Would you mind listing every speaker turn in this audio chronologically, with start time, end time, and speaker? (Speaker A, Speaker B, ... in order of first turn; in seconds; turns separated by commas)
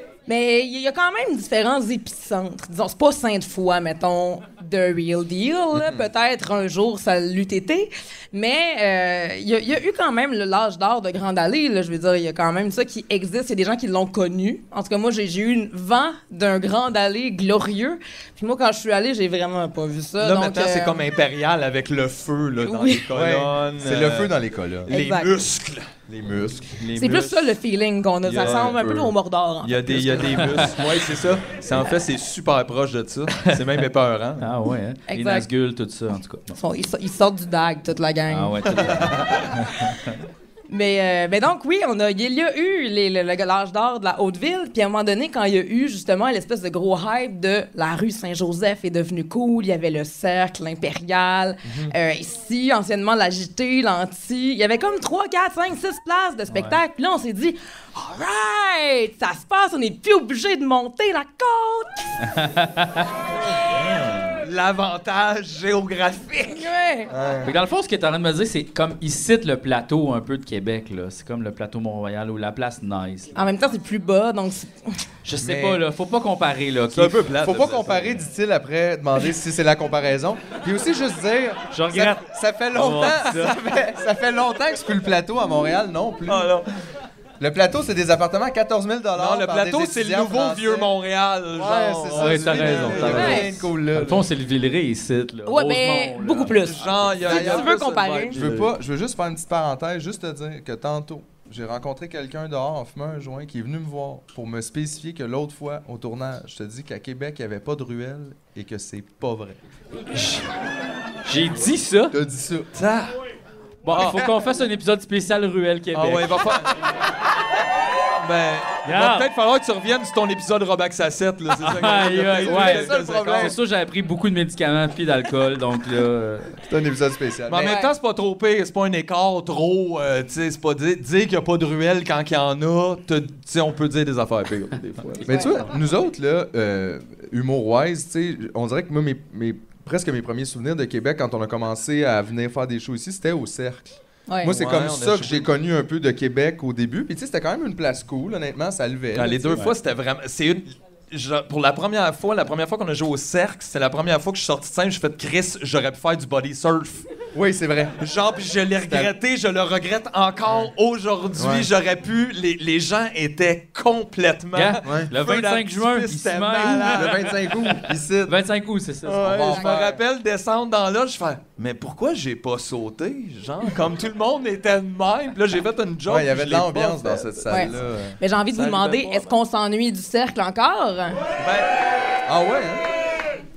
Speaker A: 0.3-21.0, Speaker B: 20.2-24.4, Speaker A: 22.6-23.0, Speaker C: 23.1-24.9, Speaker B: 24.9-25.9, Speaker A: 24.9-25.4, Speaker C: 26.1-26.8, Speaker B: 26.7-27.5, Speaker A: 26.9-30.4, Speaker B: 28.2-28.9, Speaker C: 28.4-29.1, Speaker B: 29.6-34.5, Speaker D: 34.4-36.6, Speaker A: 35.1-35.5, Speaker A: 36.5-38.8, Speaker D: 38.3-40.1, Speaker A: 40.7-62.1, Speaker D: 56.5-56.8, Speaker D: 62.3-63.1, Speaker B: 63.7-66.7, Speaker A: 66.5-67.1, Speaker C: 67.1-67.5, Speaker D: 67.4-73.3, Speaker A: 73.3-75.0, Speaker D: 75.2-77.2, Speaker B: 75.4-75.8, Speaker B: 76.9-78.2, Speaker C: 77.4-86.5, Speaker D: 81.7-83.5, Speaker B: 86.3-86.7, Speaker C: 87.4-90.9, Speaker B: 89.2-93.5, Speaker C: 91.5-94.2, Speaker D: 92.2-96.7, Speaker A: 93.0-93.5, Speaker A: 95.5-98.4, Speaker B: 96.6-98.4, Speaker C: 97.2-97.7, Speaker C: 98.3-109.6, Speaker D: 98.4-98.7, Speaker D: 110.1-110.5, Speaker D: 111.2-112.2, Speaker C: 112.1-112.7, Speaker B: 112.8-113.2, Speaker D: 113.8-116.4, Speaker B: 113.9-114.2, Speaker B: 115.9-116.7, Speaker B: 118.2-123.5, Speaker D: 118.9-119.3, Speaker D: 121.6-126.5, Speaker C: 122.4-123.6, Speaker C: 126.6-127.8, Speaker B: 127.5-135.4, Speaker A: 127.6-127.9, Speaker C: 135.3-149.6, Speaker A: 144.3-144.6, Speaker B: 144.5-145.5, Speaker B: 149.1-157.1, Speaker C: 157.3-158.0, Speaker B: 158.0-167.3, Speaker C: 161.3-161.7, Speaker D: 164.6-169.5, Speaker C: 164.8-165.1, Speaker C: 166.5-168.3, Speaker C: 169.1-170.0, Speaker B: 169.1-177.8, Speaker C: 176.1-178.2, Speaker A: 177.5-181.2, Speaker B: 178.5-179.4, Speaker B: 181.4-181.7, Speaker C: 182.3-182.9